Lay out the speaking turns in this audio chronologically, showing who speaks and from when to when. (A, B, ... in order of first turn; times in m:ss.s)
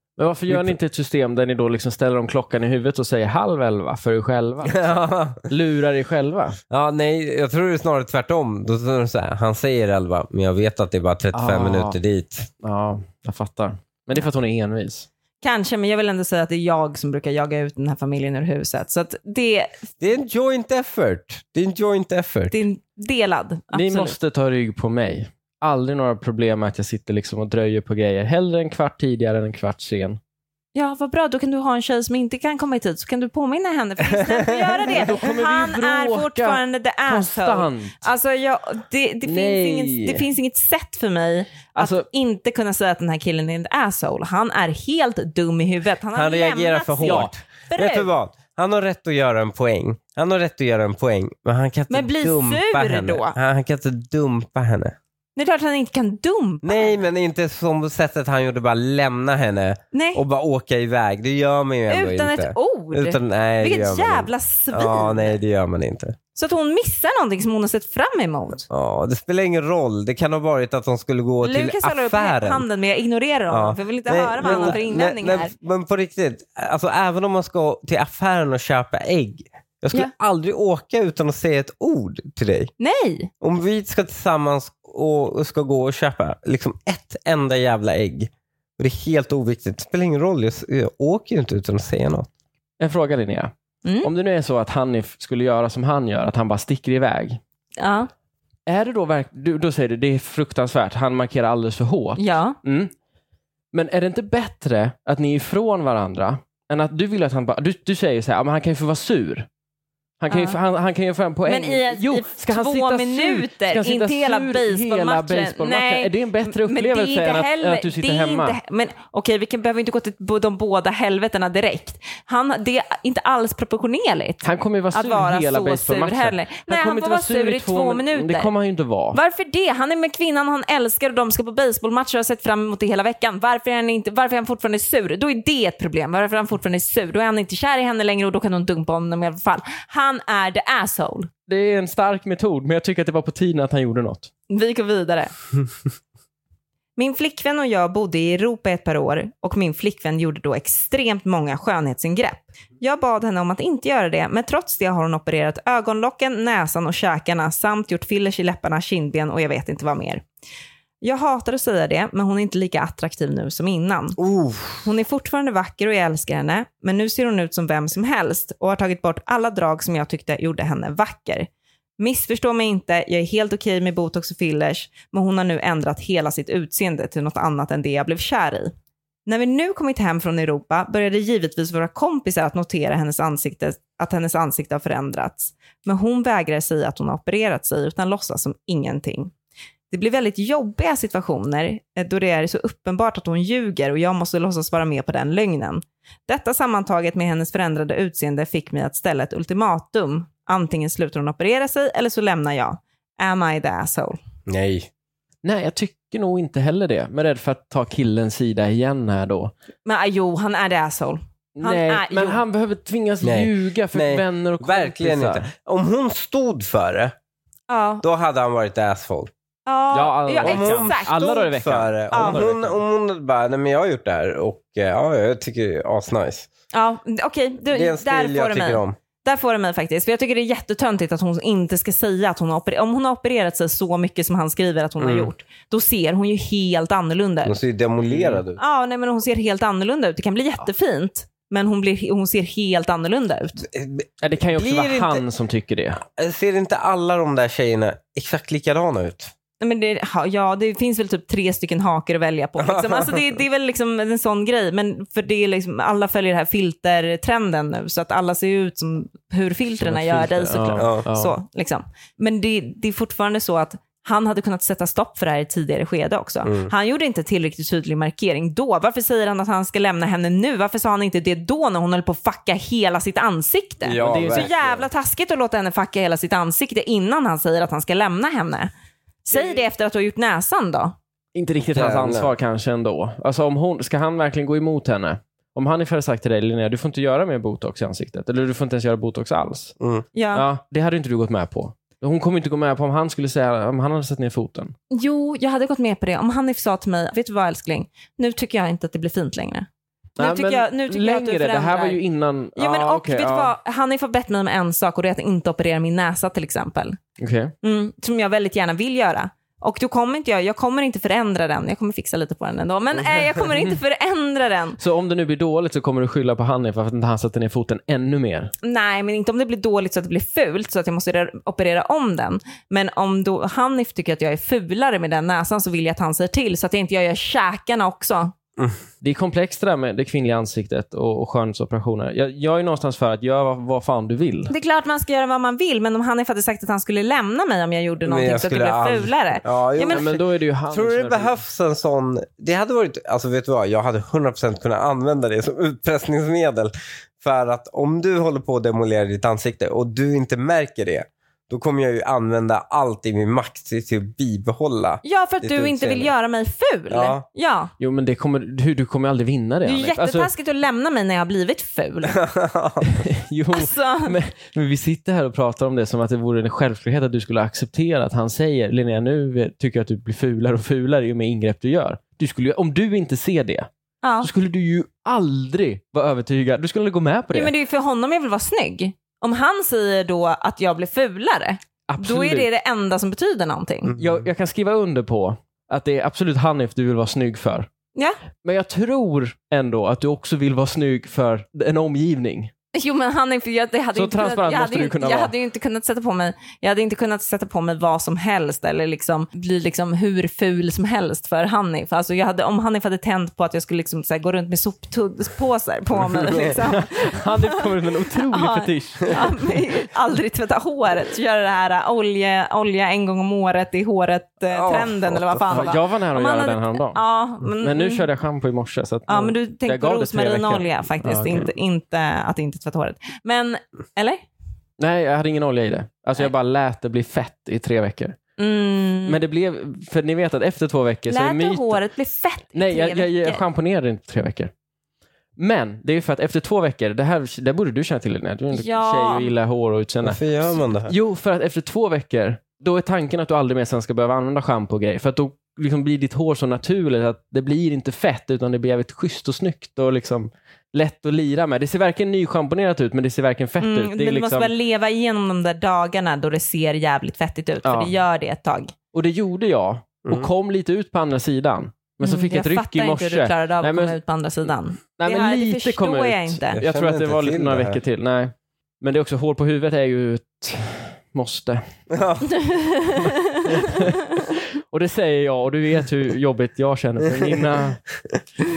0:00.2-0:06.6 A
0:00.5-0:00.8 B
0:04.6-0:05.4 B
0:06.7-0:12.5 B
0:11.3-0:12.0 A
0:12.6-0:15.1 A
0:15.4-0:19.9 C
0:20.0-0:22.6 B
0:22.5-0:24.2 C
0:23.7-0:30.2 A
0:30.7-0:48.1 C
0:34.9-0:38.0 A
0:39.2-0:40.2 A
0:41.8-0:42.1 A
0:46.1-0:55.0 B
0:47.0-0:47.3 A
0:51.9-0:53.4 C
0:55.4-0:57.0 C
0:56.6-1:06.2 B
0:59.9-1:00.2 C
1:01.9-1:05.4 C
1:06.4-1:08.7 C
1:08.7-1:12.6 B
1:11.4-1:15.5 C
1:13.5-1:22.7 B
1:22.8-1:23.3 C
1:23.4-1:32.3 B
1:32.8-1:33.5 A
1:33.8-1:34.1 C
1:34.0-1:37.4 A
1:37.8-1:38.1 C
1:38.6-1:42.9 A
1:42.2-1:42.6 C
1:43.7-1:49.5 A
1:50.2-1:58.6 A
1:50.3-1:50.6 C
1:51.4-2:08.5 C
2:04.4-2:09.2 A
2:09.1-2:21.3 C
2:21.5-2:24.3 A
2:24.5-2:25.3 C
2:27.0-2:40.2 C
2:41.0-2:44.2 C
2:44.2-2:44.9 B
2:44.8-2:58.7 C
2:59.2-3:09.3 C
3:09.9-3:24.2 C
3:24.5-3:24.9 B
3:25.4-3:29.5 A
3:29.9-3:32.4 C
3:31.6-3:35.4 A
3:33.2-3:37.1 B
3:37.7-3:38.0 C
3:38.0-3:39.3 B
3:39.6-3:41.5 C
3:39.9-3:42.8 A
3:40.4-3:46.5 B
3:42.1-3:42.4 C
3:46.7-3:57.6 C
3:47.7-3:49.0 B
3:55.0-3:55.3 B
3:57.4-3:58.6 B
3:58.0-3:58.4 A
3:58.6-4:03.6 C
4:03.6-4:05.2 B
4:04.2-4:06.0 A
4:06.2-4:09.3 B
4:09.6-4:38.7 C
4:12.6-4:13.4 B
4:19.8-4:21.4 A
4:20.8-4:21.1 B
4:26.4-4:26.7 B
4:33.8-4:34.9 B
4:34.0-4:34.5 A
4:39.2-4:41.0 C
4:41.4-4:49.7 A
4:41.7-4:42.3 B
4:49.8-4:50.0 B
4:50.1-4:50.4 C
4:50.3-4:54.7 A
4:54.9-4:59.7 C
5:00.2-5:03.5 A
5:00.2-5:02.0 C
5:02.6-5:07.0 C
5:07.2-5:07.5 A
5:07.6-5:14.8 C
5:14.8-5:18.5 A
5:18.6-5:28.4 C
5:29.0-5:34.5 A
5:34.5-5:40.1 C
5:38.1-5:56.1 B
5:39.9-5:41.4 A
5:55.0-5:57.7 C
5:56.9-5:57.2 B
5:57.8-6:00.3 A
5:59.6-6:02.2 C
6:02.1-6:03.0 B
6:02.8-6:13.7 A
6:03.5-6:04.1 C
6:14.0-6:14.3 C
6:14.2-6:17.5 A
6:17.3-6:23.9 C
6:21.9-6:22.5 A
6:23.9-6:24.3 B
6:24.0-6:27.7 A
6:28.4-6:32.5 A
6:32.7-6:58.0 C
6:34.0-6:35.3 A
6:46.2-6:46.5 B
6:46.4-6:49.7 A
6:54.5-6:55.7 B
6:55.5-7:01.5 A
6:59.1-7:04.3 C
7:04.8-7:08.2 A
7:08.4-7:09.2 C
7:09.0-7:11.8 A
7:11.1-7:13.4 C
7:12.6-7:14.5 A
7:15.4-7:20.2 A
7:18.5-7:19.3 C
7:20.0-7:21.0 B
7:20.9-7:34.5 A
7:33.6-7:38.7 C
7:37.6-7:37.9 A
7:38.9-7:44.0 A
7:42.0-7:46.6 C
7:45.0-7:51.6 A
7:46.6-7:47.8 B
7:51.9-7:52.4 B
7:52.3-7:53.9 C
7:53.4-7:57.9 A
7:57.1-7:57.4 B